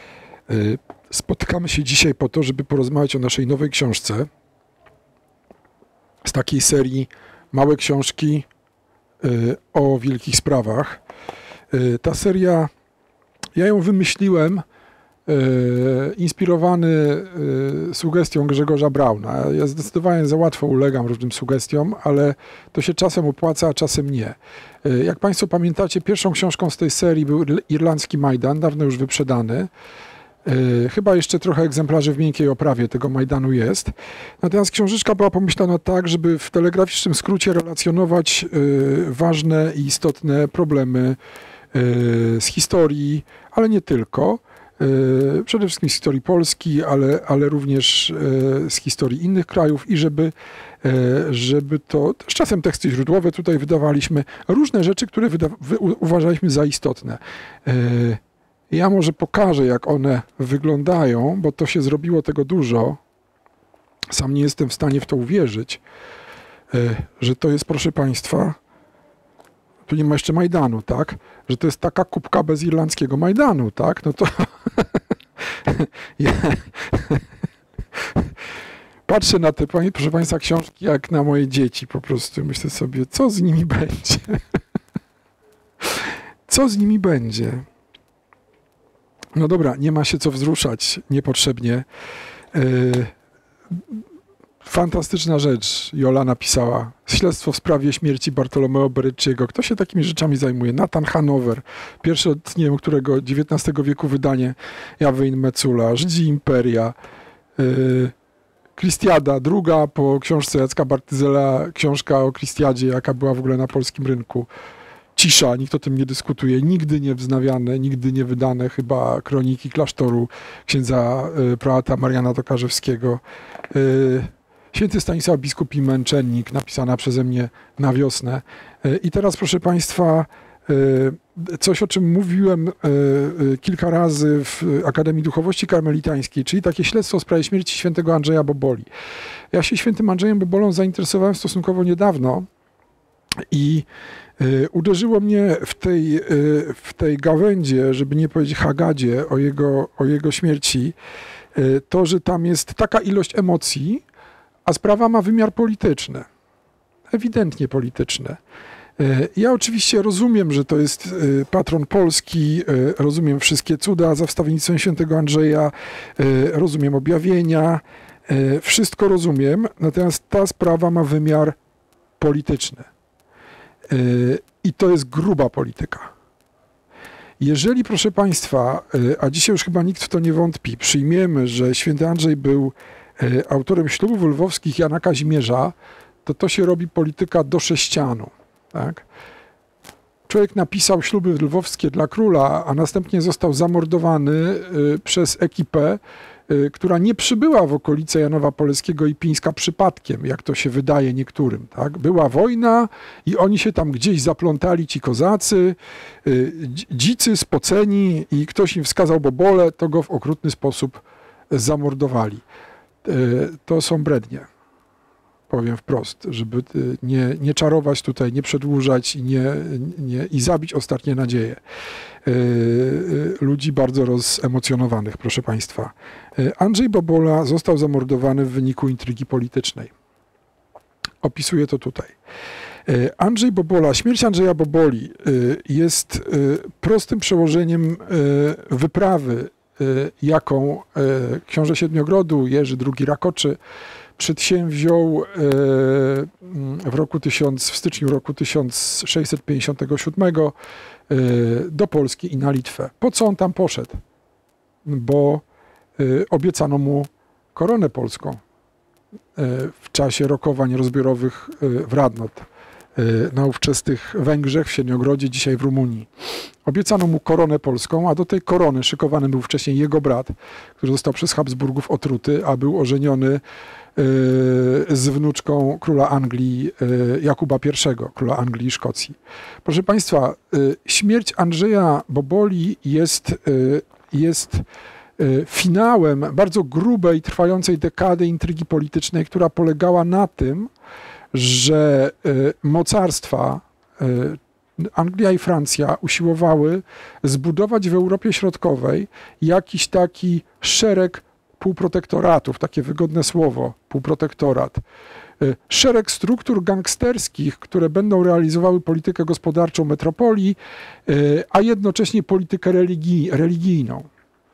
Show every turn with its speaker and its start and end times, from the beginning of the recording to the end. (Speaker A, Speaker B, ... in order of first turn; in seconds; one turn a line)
Speaker A: 0.5-4.3
Speaker A: 6.2-8.5
Speaker A: 9.2-11.0
Speaker A: 11.7-12.7
Speaker A: 13.6-14.7
Speaker A: 15.3-29.7
Speaker A: 30.4-41.2
Speaker A: 41.7-63.0
Speaker A: 64.1-65.8
Speaker A: 66.7-68.6
Speaker A: 69.9-75.0
Speaker A: 75.7-77.2
Speaker A: 79.1-84.4
Speaker A: 86.0-87.7
Speaker A: 89.3-91.9
Speaker A: 92.5-93.2
Speaker A: 94.6-107.0
Speaker A: 107.6-108.1
Speaker A: 108.8-114.5
Speaker A: 115.2-138.9
Speaker A: 139.5-142.5
Speaker A: 143.5-143.9
Speaker A: 144.4-150.9
Speaker A: 151.6-154.0
Speaker A: 154.7-156.3
Speaker A: 157.1-158.4
Speaker A: 159.0-171.6
Speaker A: 172.2-172.9
Speaker A: 173.9-176.1
Speaker A: 177.4-189.0
Speaker A: 190.3-212.4
Speaker A: 213.0-214.5
Speaker A: 215.5-221.6
Speaker A: 222.2-229.9
Speaker A: 231.2-232.2
Speaker A: 232.9-243.6
Speaker A: 244.2-250.6
Speaker A: 251.1-254.0
Speaker A: 254.8-255.4
Speaker A: 256.0-258.4
Speaker A: 259.4-266.1
Speaker A: 266.6-273.4
Speaker A: 273.9-284.6
Speaker A: 285.2-290.7
Speaker A: 291.3-304.8
Speaker A: 305.4-314.1